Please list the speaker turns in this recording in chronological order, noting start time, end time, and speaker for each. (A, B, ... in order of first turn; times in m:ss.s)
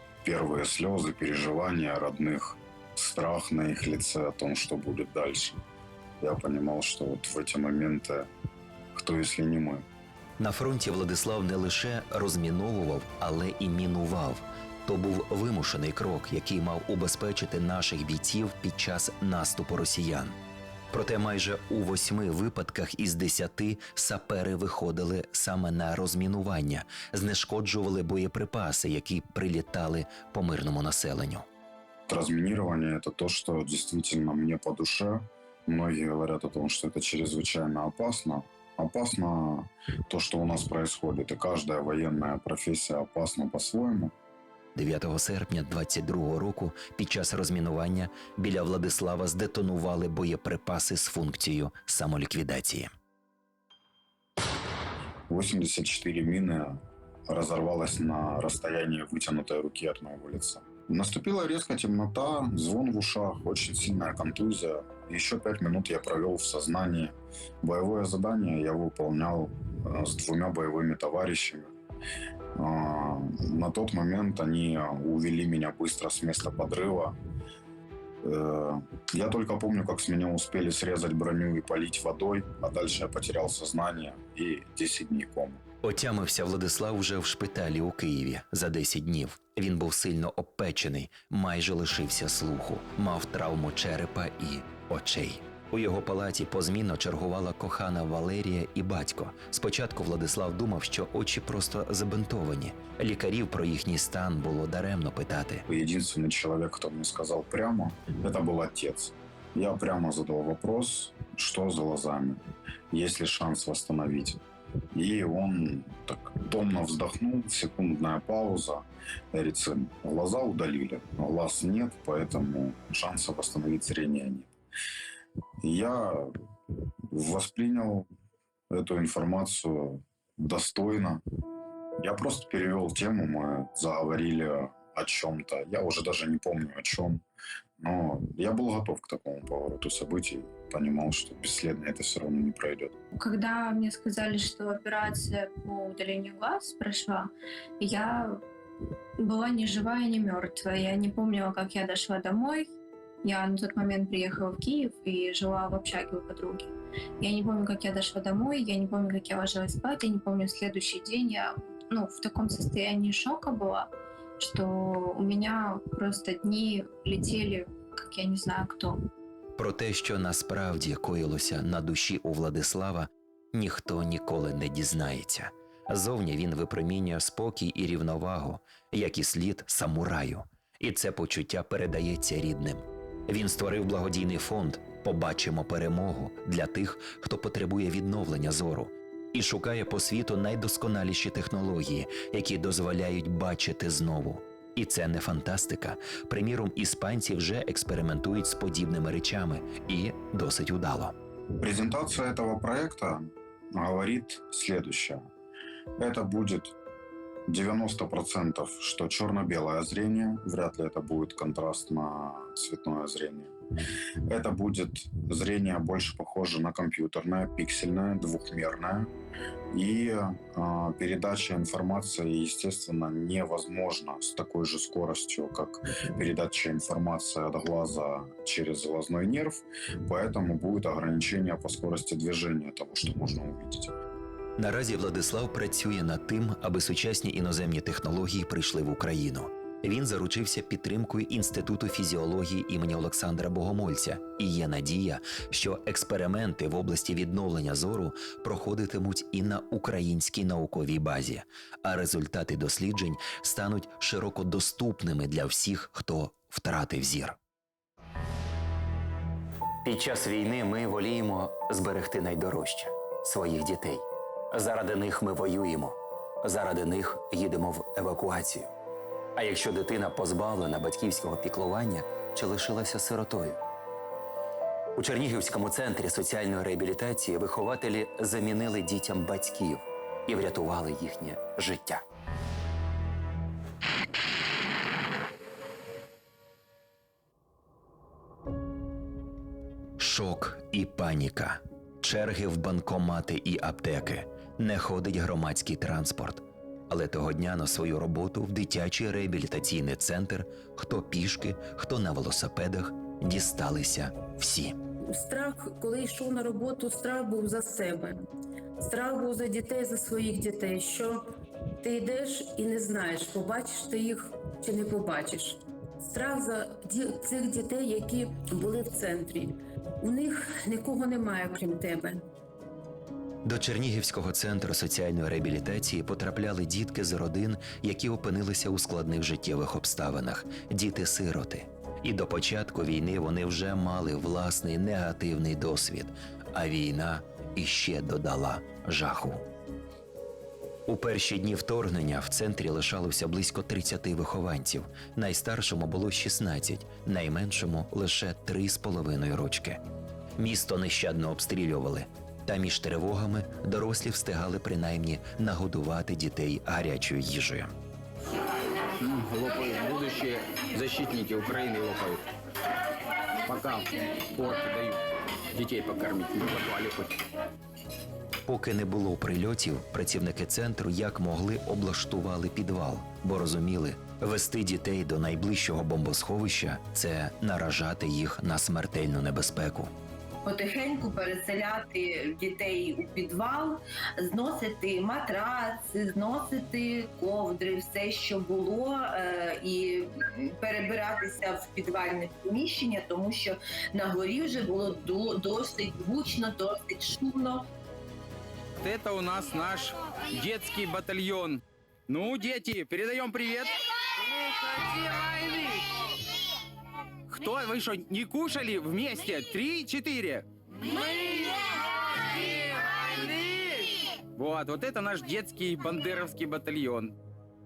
0:00.2-0:05.6 A
0:06.2-0:08.3 A
0:09.0-0:09.8 A
0:10.4-0:20.4 B
0:20.9-0:31.4 B
0:32.1-0:44.1 A
0:44.8-0:52.9 B
0:55.3-1:11.7 A
1:12.5-1:17.2 A
1:18.2-1:25.6 A
1:25.8-1:45.6 B
1:45.7-1:52.4 A
1:52.9-1:54.4 A
1:54.9-2:04.5 A
2:05.6-2:06.3 A
2:07.1-2:08.1 A
2:08.7-2:11.2 A
2:12.0-2:17.2 A
2:17.8-2:22.9 A
2:23.1-2:28.4 C
2:29.2-2:32.7 C
2:33.2-2:49.0 C
2:49.6-3:21.1 B
3:21.6-3:25.2 A
3:26.0-3:26.7 A
3:27.5-3:33.5 A
3:34.3-3:39.1 A
3:39.7-3:53.9 A
3:54.6-4:17.4 B
4:19.8-4:28.7 B
4:29.4-4:33.6 B
4:35.0-4:42.0 B
4:50.0-5:04.7 B
5:05.1-5:08.2 D
5:08.8-5:11.2 D
5:11.8-5:22.2 D
5:23.4-5:39.4 B
5:40.9-5:49.8 B
5:50.4-5:57.7 B
5:59.0-6:02.2 E
6:03.5-6:03.8 E
6:04.4-6:05.0 E
6:05.6-6:07.1 E
6:08.4-6:19.9 B
6:20.4-6:37.6 F
6:38.8-6:43.7 E
6:45.0-6:45.8 E
6:47.3-6:50.4 E
6:53.2-6:57.1 E